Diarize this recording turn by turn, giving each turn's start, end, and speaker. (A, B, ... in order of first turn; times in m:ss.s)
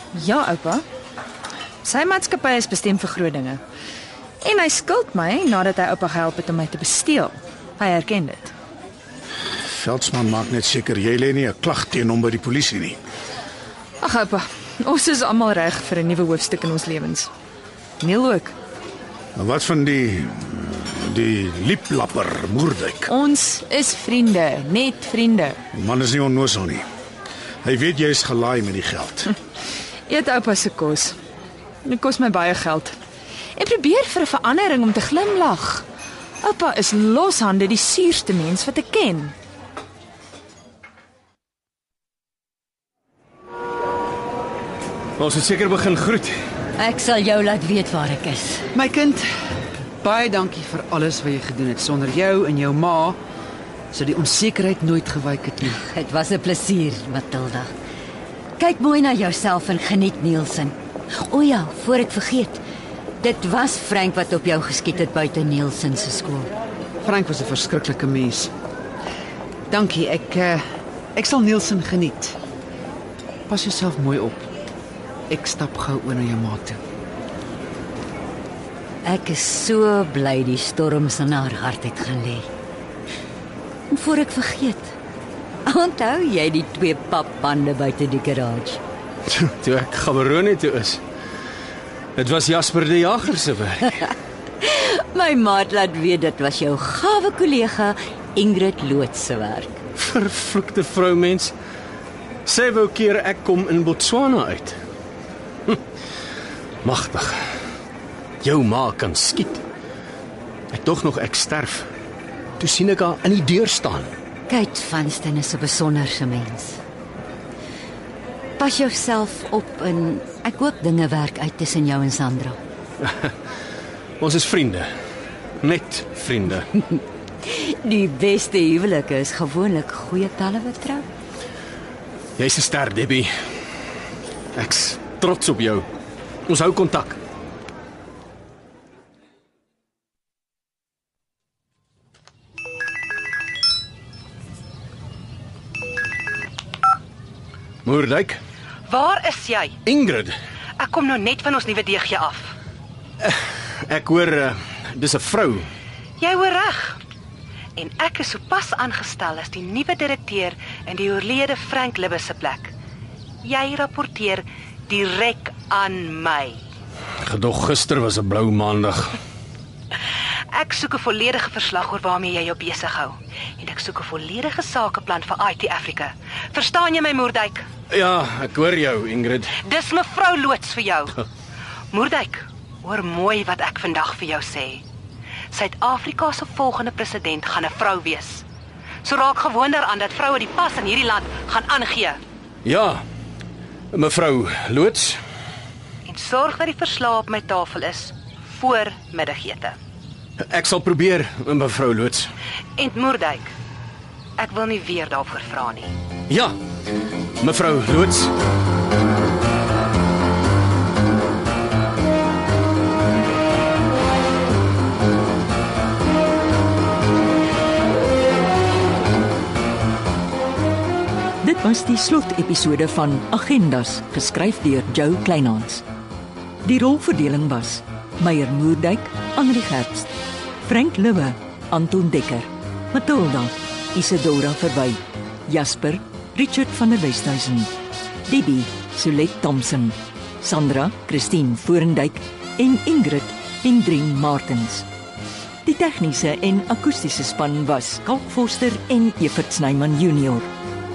0:00.1-0:00.8 A
0:01.8-0:03.6 A
0:04.4-0:08.5 A
0:09.7-0:13.0 B
0:14.0-0:17.3 A
0:18.0-0:18.6 A
0:19.4-0:23.1 B
0:23.1-0:25.6 A
0:25.7-0:26.8 B
0:27.6-0:29.3 B
0:30.1-0:31.2 A
0:31.8-0:33.0 A
0:33.6-0:35.8 A
0:36.4-0:39.3 A
0:45.2-0:46.3 C
0:46.8-0:48.6 D
0:48.7-0:49.3 E
0:50.0-0:53.2 E
0:53.9-0:55.8 E
0:55.8-0:57.7 D
0:58.6-1:02.6 D
1:03.2-1:06.5 D
1:07.0-1:08.5 E
1:09.7-1:10.6 E
1:11.1-1:12.4 E
1:13.5-1:14.4 E
1:15.3-1:16.8 E
1:19.0-1:22.5 D
1:23.9-1:24.9 D
1:25.6-1:28.8 D
1:29.3-1:31.0 C
1:32.2-1:33.9 C
1:34.6-1:39.8 D
1:40.0-1:41.5 C
1:42.4-1:44.8 C
1:46.8-1:47.4 C
1:48.4-1:49.6 C
1:50.7-1:51.9 C
1:52.6-1:54.1 C
1:54.5-1:56.8 D
1:58.6-2:02.6 D
2:03.0-2:03.3 C
2:04.2-2:04.9 C
2:05.6-2:06.7 C
2:07.4-2:11.1 D
2:12.4-2:13.3 C
2:14.5-2:15.9 C
2:16.5-2:17.2 C
2:27.8-2:28.4 C
2:28.9-2:29.8 F
2:29.8-2:30.3 C
2:30.8-2:32.5 F
2:33.2-2:35.7 C
2:36.2-2:37.0 F
2:37.8-2:42.7 F
2:43.4-2:46.6 F
2:47.2-2:49.2 C
2:50.5-2:57.6 F
2:57.9-2:59.5 C
2:59.6-3:01.1 F
3:01.9-3:04.8 F
3:05.5-3:08.4 F
3:09.0-3:12.2 F
3:12.6-3:13.0 C
3:13.9-3:15.2 C
3:16.0-3:19.8 F
3:20.4-3:22.3 C
3:22.8-3:23.5 F
3:24.4-3:25.9 F
3:26.3-3:26.6 C
3:27.4-3:28.3 C
3:41.4-3:45.8 G
3:46.6-3:50.1 G
3:50.6-3:57.7 G
3:58.2-4:04.8 G
4:05.6-4:10.5 G